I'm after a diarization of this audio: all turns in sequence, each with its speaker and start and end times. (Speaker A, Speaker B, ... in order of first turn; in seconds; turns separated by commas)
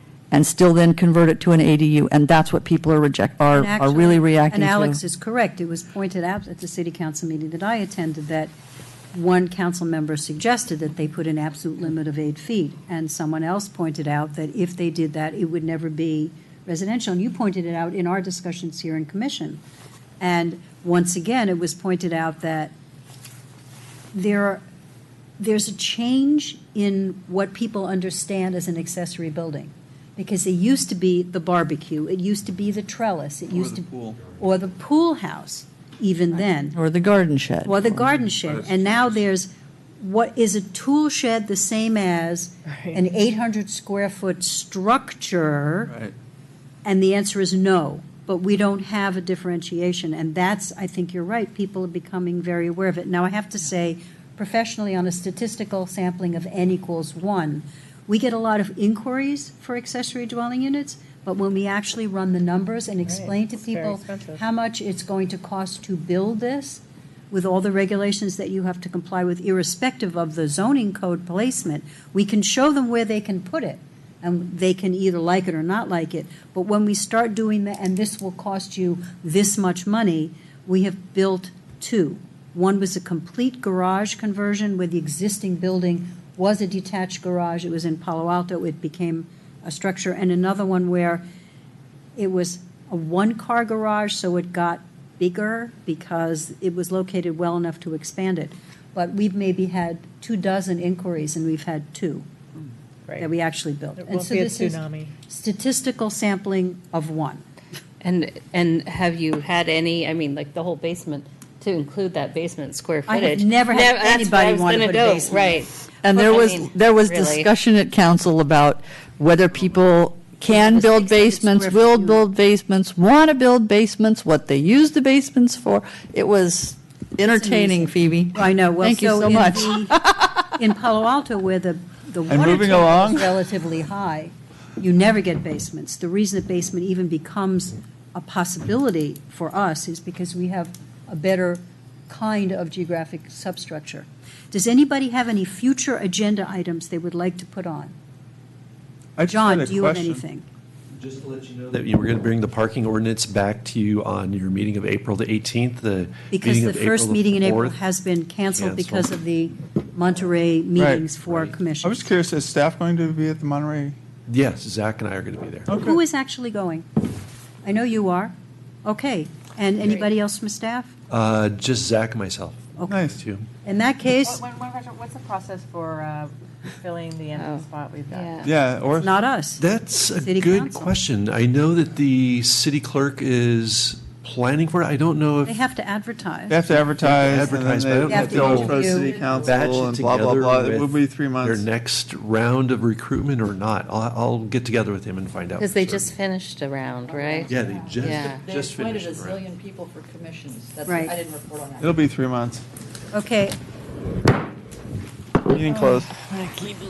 Speaker A: 0.3-5.0, Speaker B: 3.5-8.5, Speaker B: 9.1-19.6, Speaker B: 20.2-22.7, Speaker B: 24.1-24.6, Speaker B: 25.4-36.8, Speaker C: 33.5-34.2, Speaker A: 36.7-38.0, Speaker B: 37.6-45.9, Speaker C: 38.4-39.0, Speaker C: 45.9-46.1, Speaker B: 46.8-91.2, Speaker D: 63.0-64.4, Speaker B: 92.2-102.3, Speaker B: 103.2-107.4, Speaker D: 104.0-105.1, Speaker E: 108.0-117.5, Speaker B: 113.1-115.7, Speaker A: 116.0-130.3, Speaker B: 120.5-122.2, Speaker B: 127.3-130.0, Speaker B: 130.6-147.9, Speaker C: 132.3-133.4, Speaker C: 149.2-150.2, Speaker B: 149.3-150.5, Speaker F: 150.9-157.8, Speaker B: 156.3-162.1, Speaker F: 158.4-159.1, Speaker C: 160.8-161.1, Speaker F: 161.2-161.6, Speaker C: 161.8-164.0, Speaker F: 164.3-165.8, Speaker C: 165.7-166.0, Speaker B: 165.8-166.9, Speaker B: 167.6-170.9, Speaker F: 171.1-173.5, Speaker B: 172.8-173.0, Speaker C: 172.9-173.2, Speaker B: 173.6-174.4, Speaker D: 174.1-178.5, Speaker E: 177.3-178.5, Speaker C: 178.5-179.1, Speaker B: 179.0-181.0, Speaker F: 179.6-185.6, Speaker B: 185.4-186.6, Speaker C: 186.5-191.7, Speaker F: 186.7-188.8, Speaker B: 188.1-189.2, Speaker G: 188.7-189.7, Speaker F: 189.4-196.2, Speaker E: 195.6-198.5, Speaker G: 197.1-202.0, Speaker F: 197.5-199.4, Speaker B: 200.9-201.2, Speaker C: 201.8-202.7, Speaker B: 203.1-203.6, Speaker C: 205.5-206.1